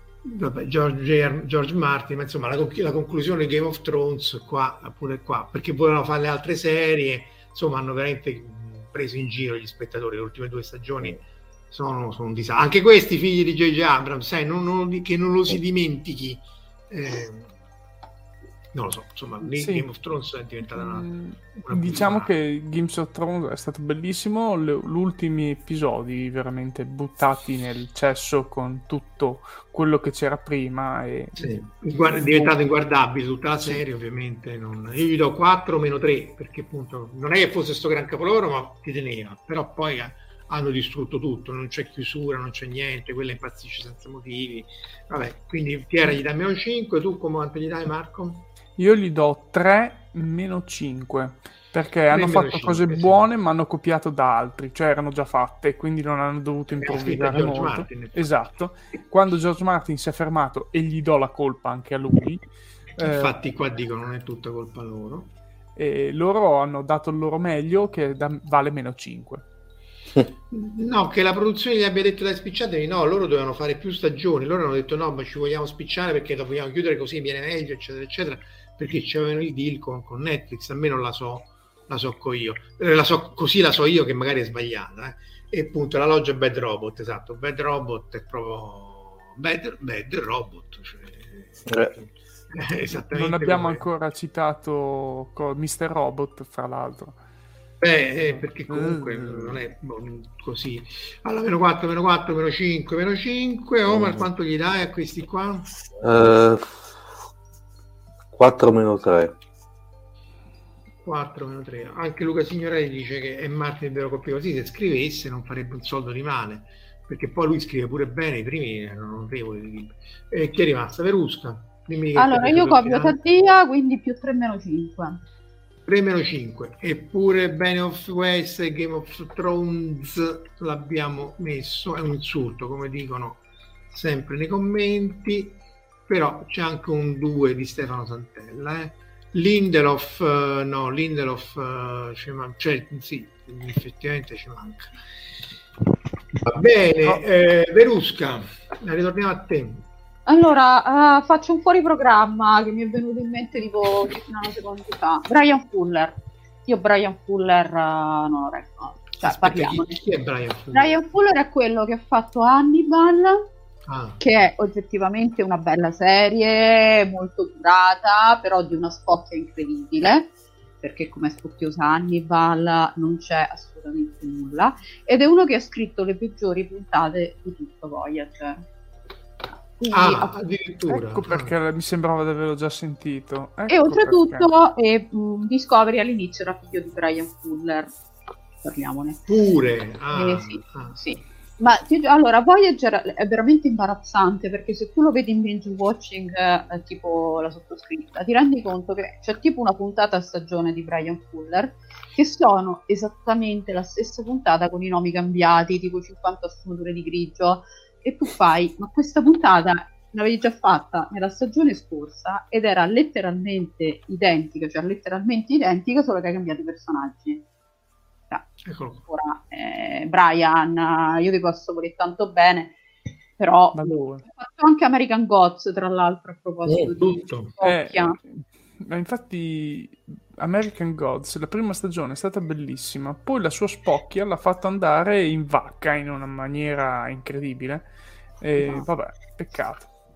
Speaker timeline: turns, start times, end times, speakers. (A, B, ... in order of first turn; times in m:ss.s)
0:00.2-0:17.5 A
0:18.7-0:22.3 A
0:19.4-0:19.8 B
0:20.7-0:31.6 B
0:31.4-0:48.4 A
0:32.1-0:32.5 B
0:48.8-1:02.4 B
0:52.1-0:53.2 A
0:56.7-0:58.2 A
1:03.0-1:03.3 B
1:03.0-1:05.3 A
1:05.8-1:09.4 B
1:10.5-1:33.8 A
1:31.7-1:31.9 C
1:33.1-1:37.2 B
1:37.8-1:45.7 A
1:38.2-1:39.6 B
1:43.9-1:44.3 C
1:46.0-1:46.9 C
1:48.3-1:49.4 C
1:51.0-2:03.2 A
2:02.2-2:05.2 D
2:05.8-2:24.9 A
2:26.4-2:29.8 A
2:30.2-2:40.0 D
2:39.2-2:41.0 A
2:40.7-2:43.4 D
2:43.9-2:44.2 A
2:44.2-2:50.3 D
2:50.8-2:58.6 D
2:59.8-3:00.3 D
2:59.9-3:01.5 A
3:00.9-3:04.5 B
3:03.7-3:07.9 D
3:08.6-3:09.2 D
3:09.3-3:11.0 A
3:10.1-3:37.4 D
3:38.6-3:39.0 A
3:39.1-3:42.8 D
3:43.4-3:48.2 D
3:43.7-3:44.2 B
3:46.7-3:47.5 A
3:47.6-3:57.9 B
3:58.4-3:59.9 B
3:58.6-3:58.8 D